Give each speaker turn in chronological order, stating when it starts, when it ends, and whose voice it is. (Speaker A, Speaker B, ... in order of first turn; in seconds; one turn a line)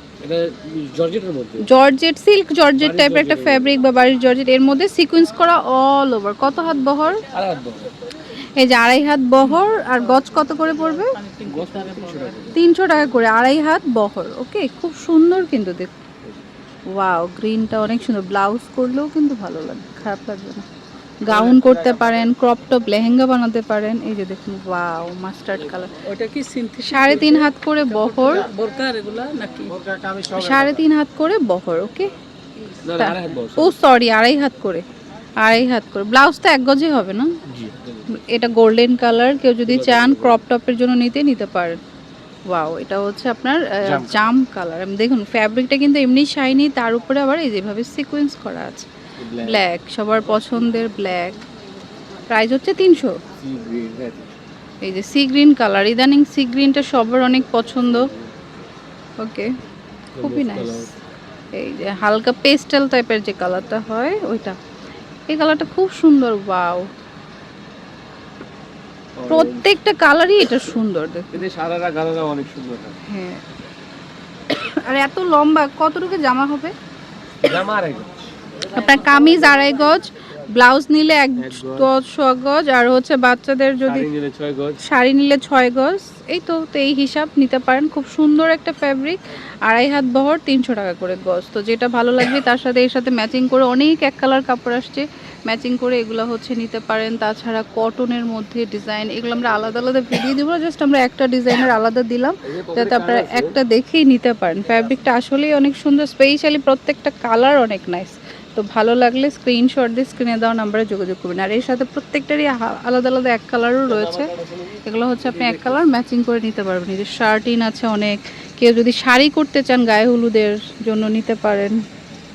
Speaker A: 0.2-1.7
Speaker B: 1.6-7.2
Speaker A: 2.8-3.8
Speaker A: 7.3-7.9
Speaker B: 8.4-11.2
Speaker C: 9.8-12.4
Speaker A: 11.4-12.7
Speaker B: 12.5-15.9
Speaker B: 16.9-20.6
Speaker B: 21.2-26.0
Speaker A: 21.3-21.8
Speaker C: 26.0-29.9
Speaker B: 26.9-28.5
Speaker A: 29.9-30.7
Speaker B: 30.3-32.1
Speaker A: 32.8-33.8
Speaker B: 32.9-34.9
Speaker B: 35.4-37.4
Speaker A: 37.5-38.2
Speaker B: 38.1-41.8
Speaker A: 39.7-40.4
Speaker B: 42.5-51.4
Speaker A: 43.8-44.2
Speaker A: 49.2-49.7
Speaker B: 52.3-53.2
Speaker A: 53.4-54.3
Speaker B: 54.8-58.1
Speaker A: 57.9-58.5
Speaker B: 59.2-59.5
Speaker A: 60.2-60.9
Speaker B: 60.2-60.9
Speaker B: 61.5-64.6
Speaker B: 65.3-66.9
Speaker A: 69.2-69.7
Speaker B: 69.3-71.4
Speaker A: 71.3-73.0
Speaker B: 73.0-73.5
Speaker B: 74.5-76.7
Speaker A: 77.4-78.2
Speaker B: 78.7-84.1
Speaker A: 81.4-81.9
Speaker A: 83.9-84.8
Speaker B: 84.8-121.8
Speaker A: 102.5-103.6
Speaker A: 113.9-115.8